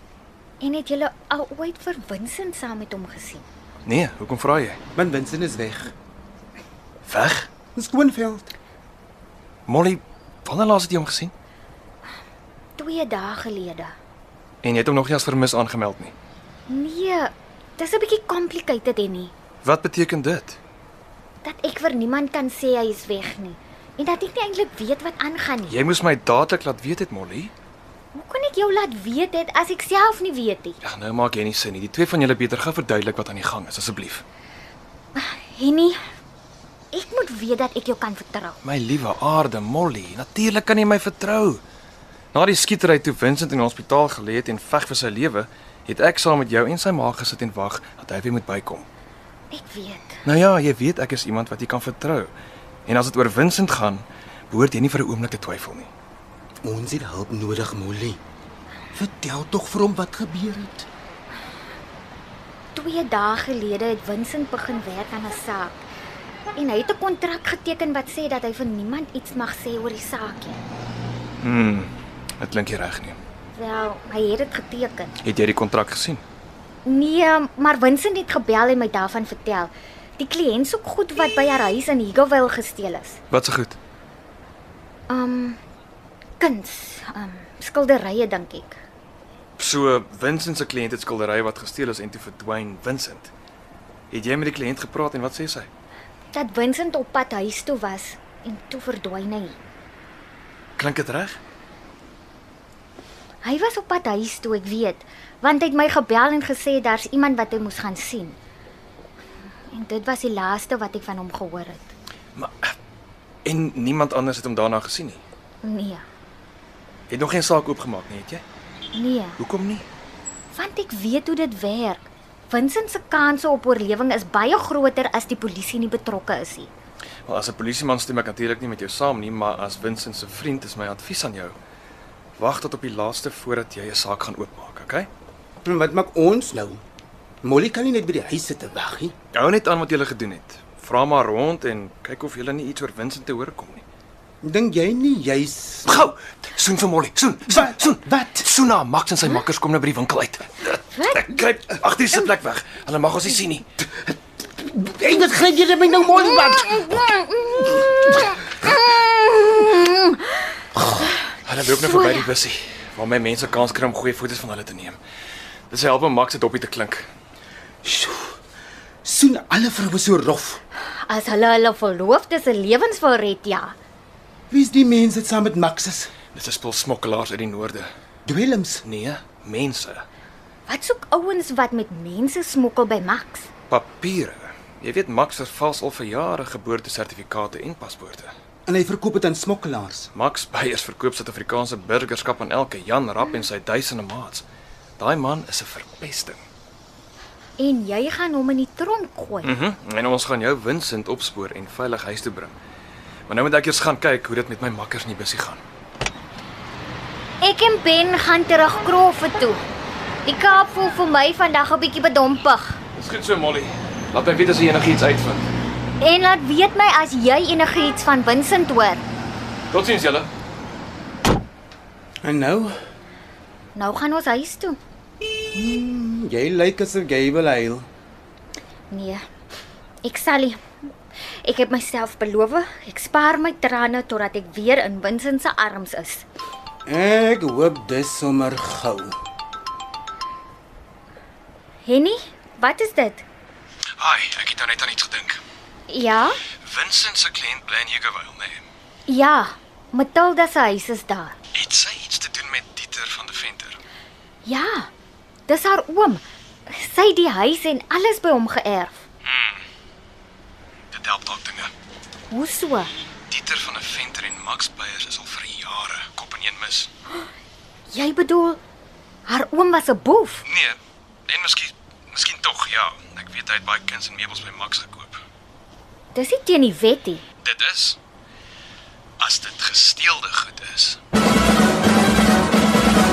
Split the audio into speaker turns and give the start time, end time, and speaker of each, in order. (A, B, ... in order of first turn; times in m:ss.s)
0:00.6-0:03.4 A
0:03.8-0:04.8 B
0:04.9-0:05.9 C
0:07.0-0:07.5 B
0:07.7-0:08.5 C
0:09.7-0:11.3 B
0:12.8-0:13.9 A
0:14.6-0:16.1 B
0:16.7-0:19.3 A
0:19.6-0:20.6 B
0:21.4-0:25.8 A
0:25.7-0:27.5 B
0:28.1-0:30.8 A
0:30.8-0:34.2 B
0:35.1-0:36.0 A
0:36.9-0:38.6 A
0:38.6-0:41.6 B
0:42.3-0:48.9 B
0:49.5-0:50.2 A
0:50.2-0:52.3 B
0:52.8-0:55.9 B
0:56.6-0:58.2 C
0:58.9-1:00.9 C
1:02.7-1:05.8 A
1:06.6-1:10.6 A
1:11.4-1:13.2 B
1:13.6-1:15.1 A
1:15.2-1:16.2 B
1:16.8-1:23.2 A
1:23.3-1:23.8 B
1:25.1-1:25.6 A
1:26.4-1:28.8 A
1:29.6-1:33.3 B
1:34.1-1:35.7 B
1:36.3-1:39.6 A
1:40.8-1:41.4 B
1:43.4-1:48.4 A
1:49.7-1:51.9 A
1:52.4-1:52.7 B
1:53.4-1:55.2 B
1:55.6-1:56.0 A
1:57.1-1:58.4 B
1:58.9-1:59.4 A
1:59.4-1:59.9 B
2:00.5-2:06.7 A
2:07.2-2:11.6 B
2:12.4-2:15.1 B
2:15.6-2:16.8 C
2:17.4-2:19.1 C
2:19.3-2:23.8 B
2:24.4-2:26.0 C
2:25.9-2:33.6 B
2:27.5-2:28.4 C
2:30.9-2:31.3 A
2:34.6-2:36.9 C
2:36.0-2:40.6 A
2:41.4-2:45.0 B
2:41.6-2:42.3 A
2:45.7-2:47.1 B
2:47.8-2:48.4 C
2:49.0-2:50.6 C
2:51.0-2:53.7 A
2:54.5-2:56.1 C
2:56.3-2:57.9 B
2:58.2-2:58.8 C
2:58.8-3:00.0 B
3:00.7-3:03.5 A
3:03.7-3:08.3 B
3:08.6-3:10.1 C
3:10.1-3:14.4 B
3:15.0-3:16.4 B
3:17.6-3:19.5 A
3:19.4-3:22.6 B
3:23.3-3:25.6 B
3:27.4-3:29.6 A
3:30.2-3:32.8 A
3:32.9-3:35.5 B
3:36.0-3:39.0 A
3:39.7-3:40.3 B
3:42.2-3:42.8 C
3:43.7-3:44.8 A
3:45.5-3:47.9 C
3:48.9-3:49.2 A
3:50.0-3:50.6 A
3:51.4-3:56.2 A
3:56.8-3:59.2 C
4:01.8-4:03.2 A
4:04.0-4:05.4 B
4:05.9-4:06.4 A
4:06.6-4:08.6 B
4:09.1-4:11.3 A
4:11.5-4:13.8 B
4:14.4-4:14.9 A
4:15.5-4:19.0 A
4:19.2-4:19.6 B
4:20.9-4:21.7 B
4:22.3-4:22.9 A
4:23.3-4:26.9 B
4:27.9-4:28.6 A
4:29.3-4:30.4 A
4:30.4-4:35.2 B
4:36.1-4:37.2 A
4:37.4-4:38.0 B
4:39.2-4:41.0 B